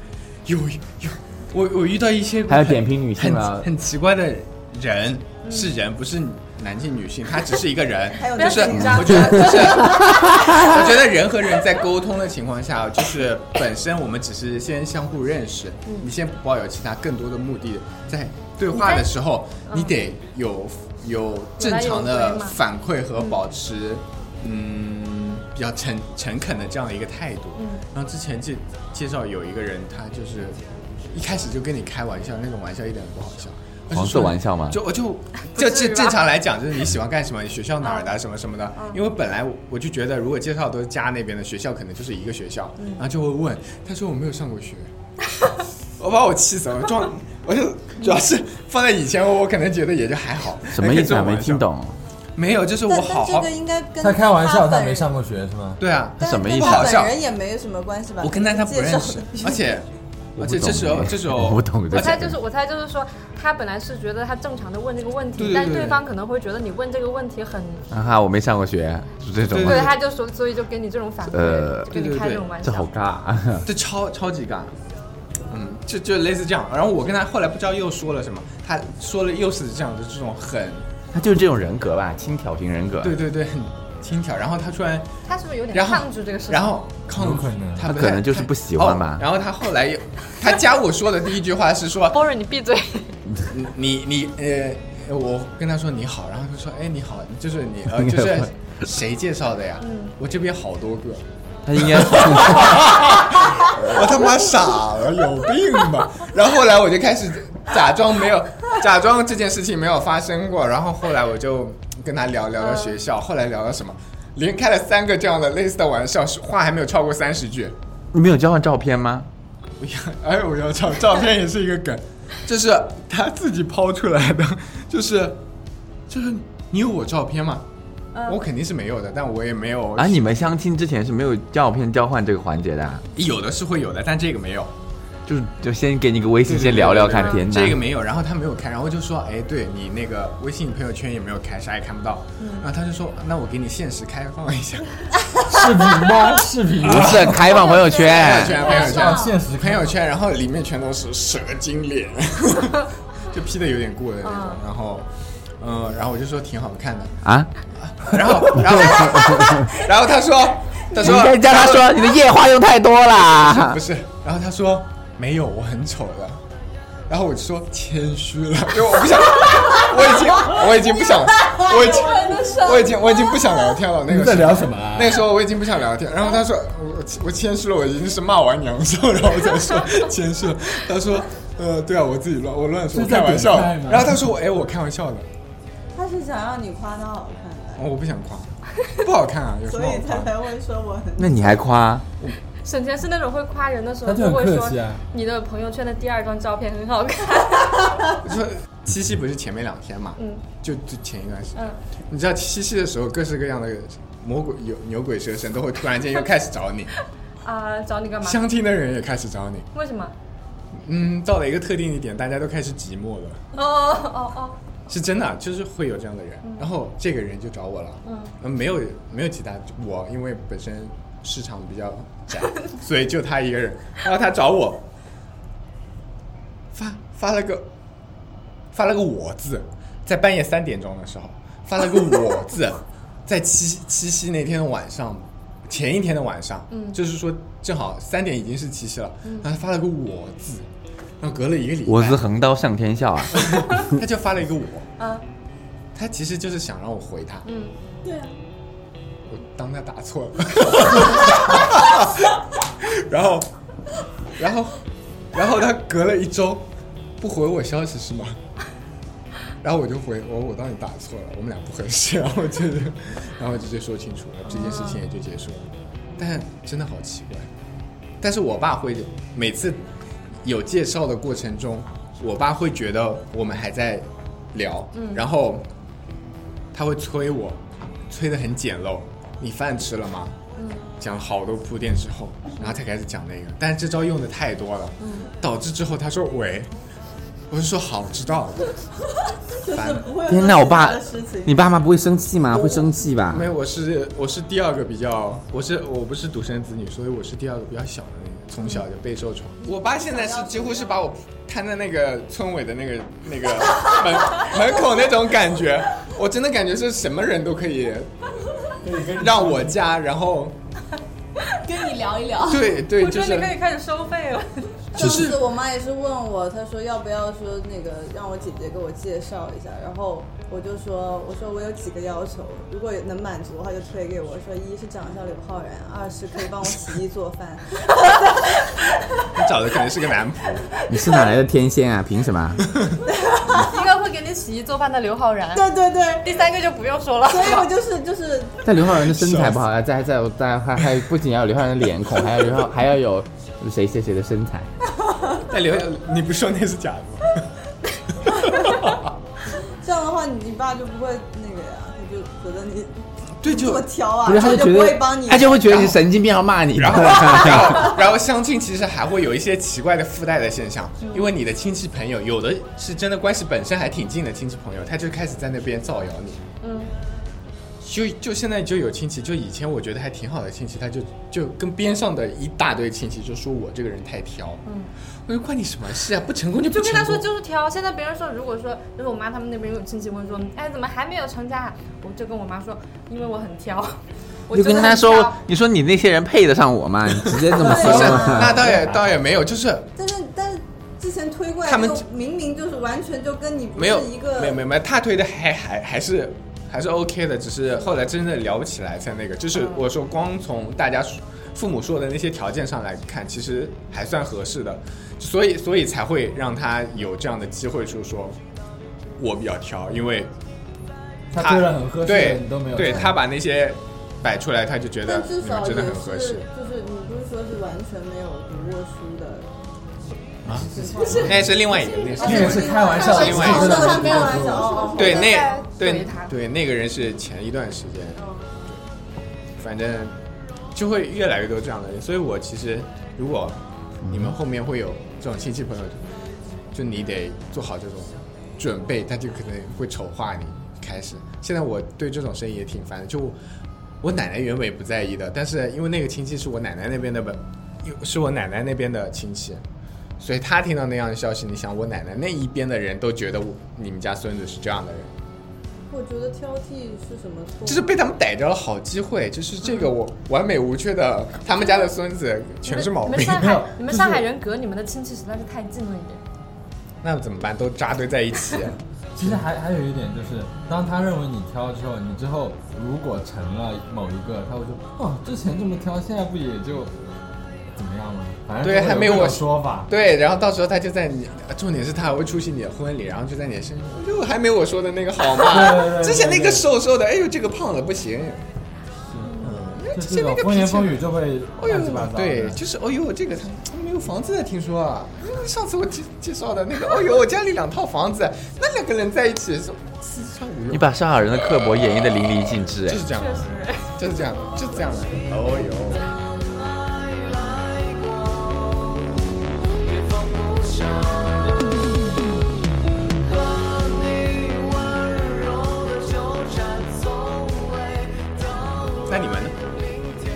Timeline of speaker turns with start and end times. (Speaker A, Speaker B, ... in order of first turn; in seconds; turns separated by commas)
Speaker A: 0.5-30.6, Speaker B: 2.5-3.7, Speaker C: 5.4-5.7, Speaker D: 8.1-10.1, Speaker C: 8.4-10.2, Speaker B: 10.0-10.6, Speaker C: 18.7-19.1, Speaker C: 19.7-19.9, Speaker C: 21.6-22.6, Speaker C: 27.6-27.8, Speaker A: 31.1-44.9, Speaker B: 33.9-34.8, Speaker C: 35.5-36.2, Speaker C: 37.8-38.1, Speaker C: 42.8-43.0, Speaker A: 46.0-51.6, Speaker B: 50.7-52.0, Speaker A: 52.4-53.5, Speaker D: 52.9-55.1, Speaker E: 54.0-55.8, Speaker A: 55.8-57.2, Speaker B: 56.2-57.0, Speaker D: 56.2-59.6, Speaker A: 58.2-62.3, Speaker B: 60.4-62.4, Speaker C: 61.9-67.8, Speaker A: 65.4-66.0, Speaker B: 67.9-69.9, Speaker A: 69.5-70.0, Speaker C: 69.6-72.9, Speaker B: 71.2-71.9, Speaker A: 71.9-72.5, Speaker B: 72.6-73.7, Speaker A: 73.6-74.7, Speaker A: 75.5-80.9, Speaker B: 81.1-83.2, Speaker A: 83.0-85.1, Speaker C: 85.3-86.8, Speaker A: 85.7-92.2, Speaker E: 87.1-87.9, Speaker B: 87.8-89.2, Speaker C: 92.1-93.2, Speaker A: 93.4-117.7, Speaker B: 98.0-98.5, Speaker C: 99.8-100.1, Speaker B: 101.7-103.0, Speaker B: 103.7-104.2, Speaker C: 112.6-112.9, Speaker B: 118.1-119.3, Speaker A: 119.8-125.4, Speaker A: 126.1-127.6, Speaker C: 128.1-128.4, Speaker A: 128.3-130.5, Speaker B: 129.9-133.0, Speaker A: 133.1-134.7, Speaker B: 135.2-137.8, Speaker A: 136.4-145.1, Speaker C: 142.4-142.6, Speaker E: 145.5-147.6, Speaker B: 146.8-148.7, Speaker A: 146.8-155.1, Speaker F: 148.4-149.4, Speaker E: 148.7-149.9, Speaker C: 154.2-154.6, Speaker A: 155.6-157.2, Speaker B: 157.2-157.5, Speaker A: 157.8-162.0, Speaker B: 158.6-159.6, Speaker B: 160.9-163.8, Speaker A: 163.3-166.4, Speaker A: 167.1-185.2, Speaker F: 171.4-173.5, Speaker E: 174.1-175.2, Speaker E: 182.9-184.3, Speaker D: 185.9-187.8, Speaker A: 187.8-190.3, Speaker D: 189.7-191.6, Speaker B: 191.2-192.1, Speaker C: 192.6-198.1, Speaker E: 194.0-195.0, Speaker A: 198.2-201.6, Speaker C: 200.2-200.4, Speaker A: 202.1-206.9, Speaker C: 207.4-208.4, Speaker A: 208.2-209.7, Speaker C: 209.7-210.1, Speaker A: 210.8-213.4, Speaker C: 213.5-214.6, Speaker A: 214.9-224.8, Speaker C: 218.0-218.3, Speaker A: 226.7-227.7, Speaker A: 228.7-240.7, Speaker C: 236.7-237.0, Speaker A: 241.2-242.2, Speaker B: 241.8-243.6, Speaker A: 243.3-244.9, Speaker C: 245.0-245.2, Speaker A: 245.9-247.5, Speaker C: 247.4-247.7, Speaker F: 248.0-248.3, Speaker A: 249.2-253.5, Speaker A: 254.3-254.8, Speaker A: 255.3-256.6, Speaker A: 257.2-258.4, Speaker A: 259.6-267.5, Speaker C: 264.5-265.0, Speaker A: 268.2-269.8, Speaker A: 270.4-275.7, Speaker C: 274.9-275.2, Speaker A: 276.7-280.4, Speaker C: 280.6-280.9, Speaker A: 281.0-286.7, Speaker C: 285.0-285.3, Speaker A: 287.5-288.8, Speaker D: 289.6-291.6, Speaker A: 289.7-290.1, Speaker B: 290.2-293.5, Speaker A: 293.3-308.1, Speaker D: 299.6-301.0, Speaker E: 308.8-309.7, Speaker A: 309.1-310.5, Speaker F: 311.6-312.8, Speaker A: 312.4-313.5, Speaker C: 312.7-314.8, Speaker D: 314.9-328.9, Speaker A: 314.9-315.4, Speaker A: 329.3-330.7, Speaker B: 330.9-332.6, Speaker D: 330.9-331.3, Speaker A: 332.6-333.0, Speaker D: 333.1-333.7, Speaker C: 333.6-335.7, Speaker D: 335.5-336.4, Speaker C: 336.2-337.7, Speaker D: 337.3-338.7, Speaker B: 338.6-344.7, Speaker A: 339.0-339.6, Speaker D: 345.1-345.4, Speaker A: 345.5-347.5, Speaker A: 348.1-349.0, Speaker D: 349.8-355.7, Speaker A: 353.4-353.9, Speaker B: 354.2-358.0, Speaker A: 355.6-356.0, Speaker A: 356.8-366.4, Speaker C: 366.6-366.9, Speaker A: 367.8-374.6, Speaker C: 374.6-374.9, Speaker A: 375.3-377.2, Speaker C: 376.6-385.4, Speaker B: 384.5-389.0, Speaker A: 387.4-389.9, Speaker D: 387.6-388.7, Speaker D: 389.9-394.6, Speaker A: 391.6-392.0, Speaker A: 393.8-408.4, Speaker A: 409.2-410.3, Speaker E: 411.3-413.2, Speaker A: 411.3-416.4, Speaker D: 415.1-419.5, Speaker E: 420.4-421.4, Speaker A: 420.4-424.2, Speaker D: 420.5-425.3, Speaker F: 421.6-422.1, Speaker E: 422.2-424.8, Speaker F: 424.6-425.3, Speaker C: 424.8-426.3, Speaker A: 424.9-428.8, Speaker D: 428.2-428.5, Speaker A: 429.6-430.1, Speaker A: 430.7-436.0, Speaker B: 434.0-434.3, Speaker A: 436.7-443.4, Speaker A: 444.0-449.6, Speaker A: 450.2-455.1, Speaker D: 455.9-458.0, Speaker A: 457.6-463.7, Speaker C: 462.6-466.2, Speaker E: 463.4-464.2, Speaker A: 467.0-469.4, Speaker E: 469.1-476.9, Speaker E: 477.7-479.9, Speaker A: 478.6-488.4, Speaker E: 485.4-486.6, Speaker E: 489.1-492.6, Speaker A: 489.4-491.0, Speaker A: 491.6-501.0, Speaker B: 500.7-503.1, Speaker A: 502.8-506.1, Speaker C: 503.1-503.9, Speaker A: 518.9-519.6